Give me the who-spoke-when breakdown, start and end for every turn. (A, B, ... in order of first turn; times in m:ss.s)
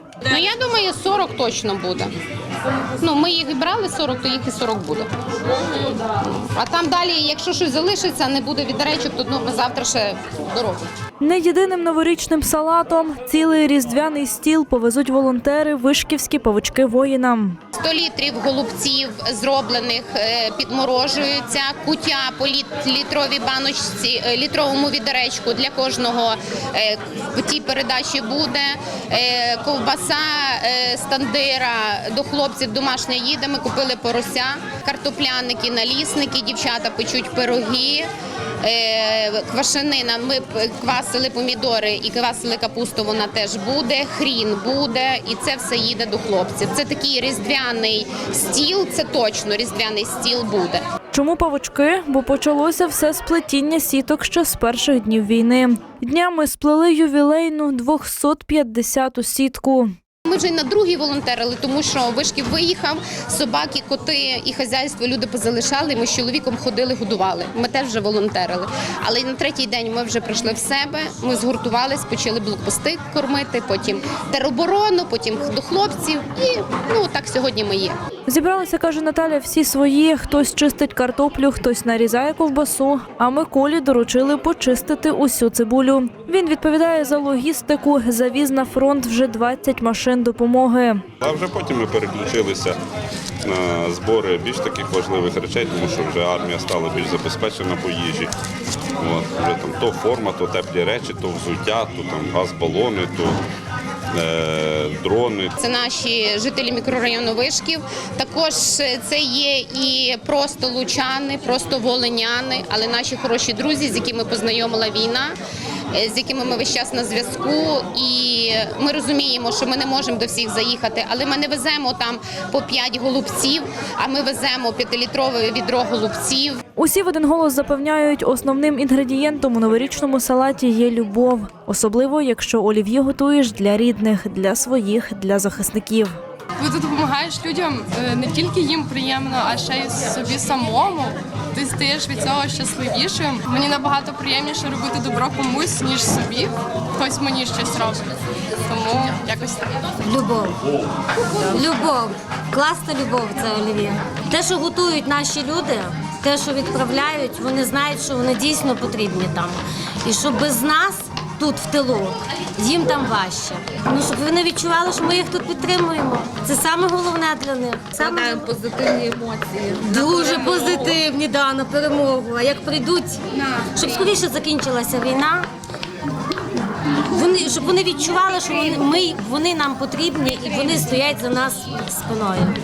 0:00.2-0:02.1 A
0:03.0-0:05.1 A
0:06.4-0:10.8 A
0:11.2-0:17.6 B
0:17.8-0:38.1 A
0:38.6-0:50.8 A
0:51.1-0:59.9 B
1:00.3-1:17.9 A
1:18.3-1:31.0 B
1:31.2-1:32.8 C
1:33.4-1:38.3 C
1:39.0-1:43.4 C
1:44.1-1:45.5 C
1:45.6-1:55.4 A
1:55.9-2:06.6 A
2:06.8-2:16.1 B
2:16.6-2:28.1 D
2:28.6-2:29.7 D
2:30.0-2:30.6 E
2:31.5-2:49.2 E
2:49.7-2:55.5 E
2:57.1-3:02.6 E